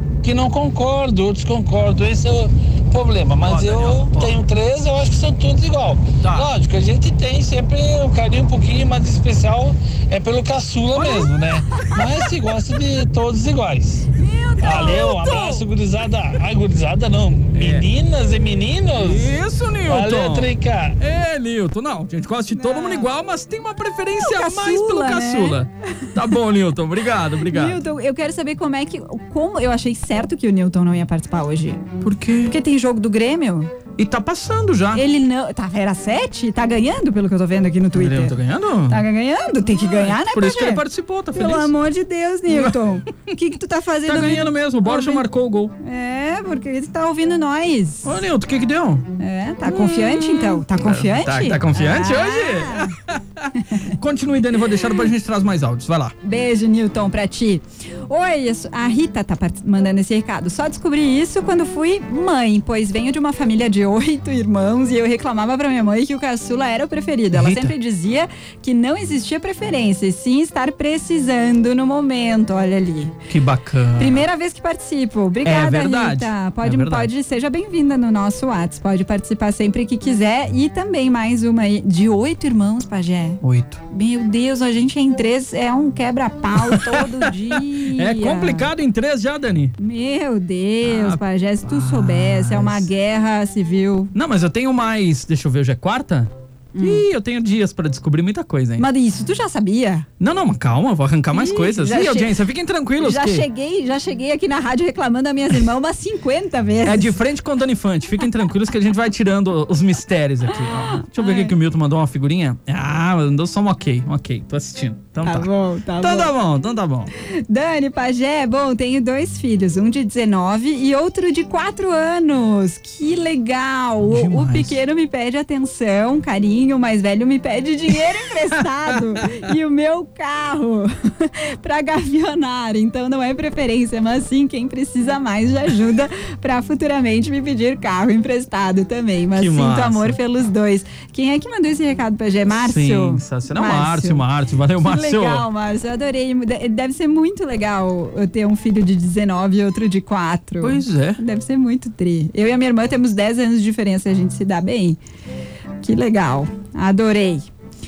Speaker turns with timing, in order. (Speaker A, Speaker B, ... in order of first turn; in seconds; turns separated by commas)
Speaker A: 0.2-14.1, Speaker B: 3.4-4.4, Speaker B: 6.2-6.5, Speaker B: 10.9-12.0, Speaker C: 14.2-15.7, Speaker A: 14.6-21.0, Speaker B: 17.5-17.9, Speaker B: 18.9-27.8, Speaker C: 22.5-23.1, Speaker C: 24.2-26.1, Speaker C: 27.5-31.8, Speaker B: 32.0-32.6, Speaker C: 32.5-33.7, Speaker B: 34.0-35.0, Speaker C: 34.9-38.4, Speaker B: 38.0-39.0, Speaker C: 38.9-40.8, Speaker B: 40.0-41.7, Speaker C: 41.3-45.2, Speaker B: 42.5-42.8, Speaker B: 44.0-45.8, Speaker C: 45.8-48.1, Speaker B: 48.0-49.1, Speaker C: 49.2-52.9, Speaker B: 49.6-56.1, Speaker C: 56.2-73.2, Speaker B: 67.3-67.8, Speaker B: 73.3-74.2, Speaker C: 74.0-88.7, Speaker B: 75.4-77.1, Speaker B: 83.4-83.8, Speaker B: 86.6-89.8, Speaker C: 89.8-94.1, Speaker B: 90.8-92.9, Speaker B: 94.1-98.9, Speaker C: 96.7-97.0, Speaker C: 98.8-100.1, Speaker B: 100.2-103.5, Speaker C: 101.3-102.4, Speaker C: 103.0-107.2, Speaker B: 106.8-117.1, Speaker C: 111.0-111.5, Speaker C: 115.2-116.3, Speaker C: 117.2-144.2, Speaker B: 124.0-124.8, Speaker B: 139.4-140.2, Speaker B: 142.5-145.5, Speaker C: 144.8-155.0, Speaker B: 150.6-151.2, Speaker C: 155.8-157.5